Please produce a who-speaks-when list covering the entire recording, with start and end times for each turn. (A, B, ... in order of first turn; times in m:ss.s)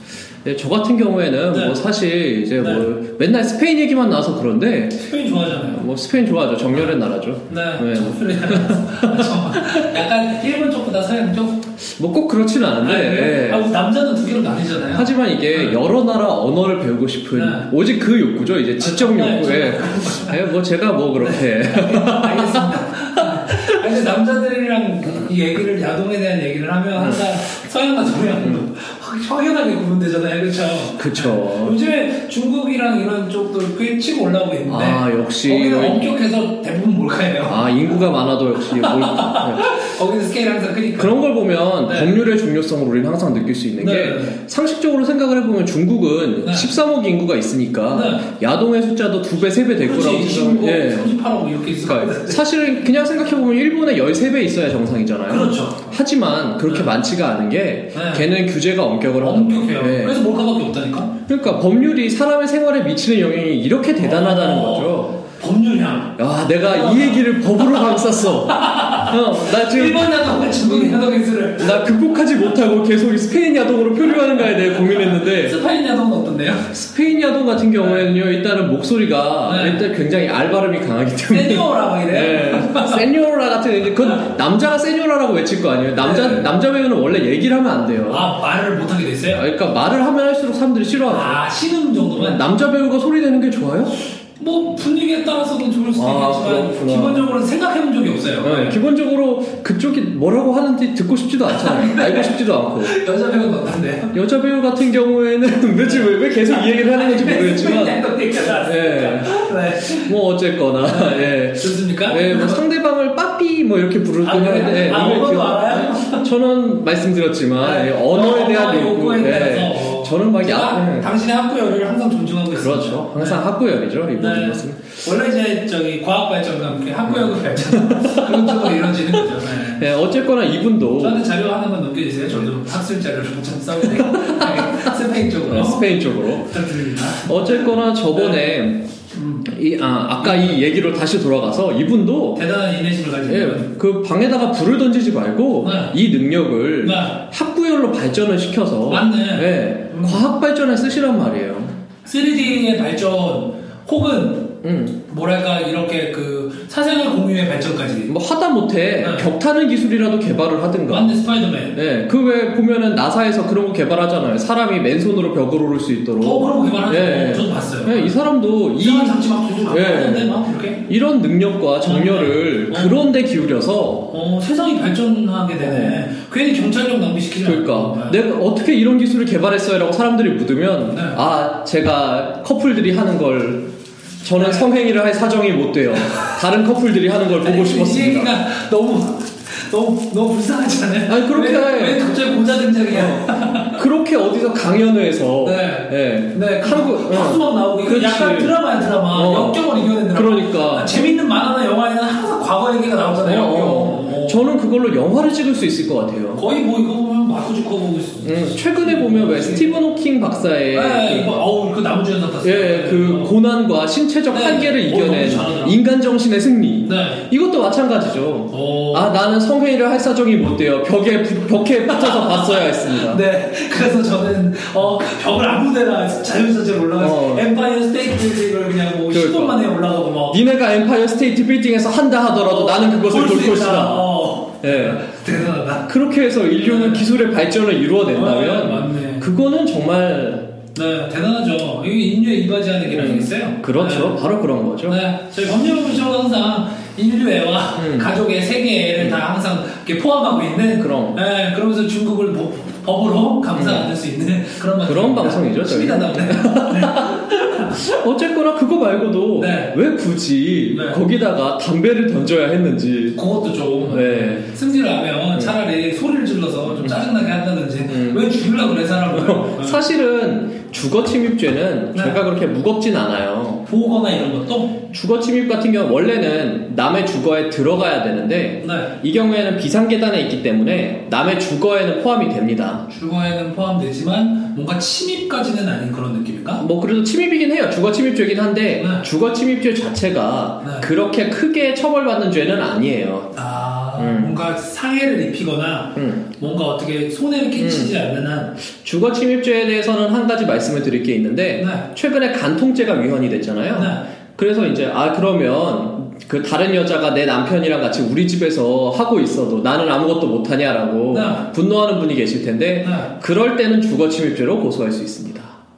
0:00.4-0:05.1 A
0:01.5-0:01.8 B
0:02.6-0:02.9 B
0:05.0-0:05.9 B
0:05.6-0:10.0 A
0:07.5-0:11.7 B
0:11.8-0:13.7 A
0:12.8-0:15.8 B
0:14.8-0:23.6 A
0:17.3-0:17.7 B
0:18.8-0:20.5 B
0:21.2-0:37.7 B
0:27.0-0:27.2 A
0:28.4-0:28.6 A
0:31.0-0:31.8 A
0:34.6-0:36.1 A
0:37.4-0:39.7 A
0:38.6-0:41.2 B
0:41.0-0:51.1 A
0:41.8-0:42.2 B
0:43.8-0:44.4 B
0:46.4-0:46.7 B
0:47.9-0:48.3 B
0:49.8-0:52.4 B
0:51.8-1:00.2 A
0:55.3-0:56.0 B
0:56.6-0:57.0 B
0:57.9-0:58.3 B
0:59.2-1:01.2 B
1:01.3-1:05.2 A
1:04.0-1:11.8 B
1:06.2-1:15.6 A
1:14.1-1:16.7 B
1:16.7-1:28.3 A
1:17.8-1:18.2 B
1:19.4-1:19.8 B
1:21.3-1:23.1 B
1:26.0-1:26.5 B
1:28.1-1:29.5 B
1:29.3-1:31.4 A
1:31.1-1:32.4 B
1:32.1-1:34.0 A
1:34.4-1:38.8 B
1:35.9-1:37.3 A
1:38.4-1:43.0 A
1:41.5-1:44.2 B
1:44.1-2:01.1 A
1:45.8-1:50.2 B
1:50.8-1:52.6 B
1:54.2-1:56.3 B
1:57.6-2:03.4 B
2:02.5-2:05.0 A
2:04.1-2:09.9 B
2:07.0-2:11.3 A
2:11.0-2:18.5 B
2:13.8-2:18.9 A
2:19.1-2:19.5 B
2:19.4-2:22.4 A
2:20.2-2:20.6 B
2:22.3-2:23.7 B
2:23.2-2:31.7 A
2:25.6-2:26.0 B
2:26.8-2:27.2 B
2:28.9-2:30.2 B
2:32.0-2:38.1 B
2:34.6-2:35.0 A
2:38.1-2:41.1 A
2:39.0-2:39.3 B
2:40.9-2:41.8 B
2:41.7-2:54.1 A
2:46.2-2:48.2 B
2:48.8-2:50.9 B
2:51.8-2:53.0 B
2:54.1-2:58.2 B
2:55.6-2:56.0 A
2:57.4-3:03.7 A
3:00.9-3:01.2 B
3:04.2-3:08.4 A
3:04.3-3:04.7 B
3:06.0-3:06.4 B
3:07.4-3:13.8 B
3:11.1-3:12.1 A
3:12.9-3:20.9 A
3:15.4-3:24.4 B
3:23.2-3:26.4 A
3:26.3-3:29.7 B
3:28.2-3:31.4 A
3:30.7-3:33.4 B
3:32.4-3:43.2 A
3:34.3-3:35.8 B
3:36.8-3:37.2 B
3:38.5-3:39.1 B
3:41.8-3:50.4 B
3:47.0-3:47.5 A
3:49.1-3:49.7 A
3:50.3-3:55.0 A
3:52.3-3:56.0 B
3:55.8-4:00.6 A
3:56.6-3:57.1 B
3:58.1-3:59.3 B
4:00.7-4:04.2 B
4:02.8-4:05.0 A
4:04.9-4:17.8 B
4:07.8-4:08.2 A
4:09.0-4:09.2 A
4:10.7-4:11.2 A
4:13.5-4:13.9 A
4:14.8-4:23.2 A
4:19.4-4:19.8 B
4:20.7-4:21.0 B
4:23.1-4:29.8 B
4:23.8-4:24.5 A
4:26.7-4:27.0 A
4:27.9-4:28.4 A
4:29.1-4:33.6 A
4:31.9-4:32.2 B
4:33.6-4:34.8 B
4:34.9-4:42.9 A
4:38.6-4:38.9 B
4:42.9-4:46.6 B
4:46.6-4:53.4 A
4:48.8-4:49.1 B
4:50.6-4:50.9 B
4:53.3-4:58.6 B
4:54.0-4:54.4 A
4:55.9-4:56.4 A
4:57.6-4:58.0 A
4:58.7-5:15.5 A
5:01.6-5:01.8 B
5:03.7-5:04.0 B
5:11.1-5:11.5 B
5:12.8-5:13.1 B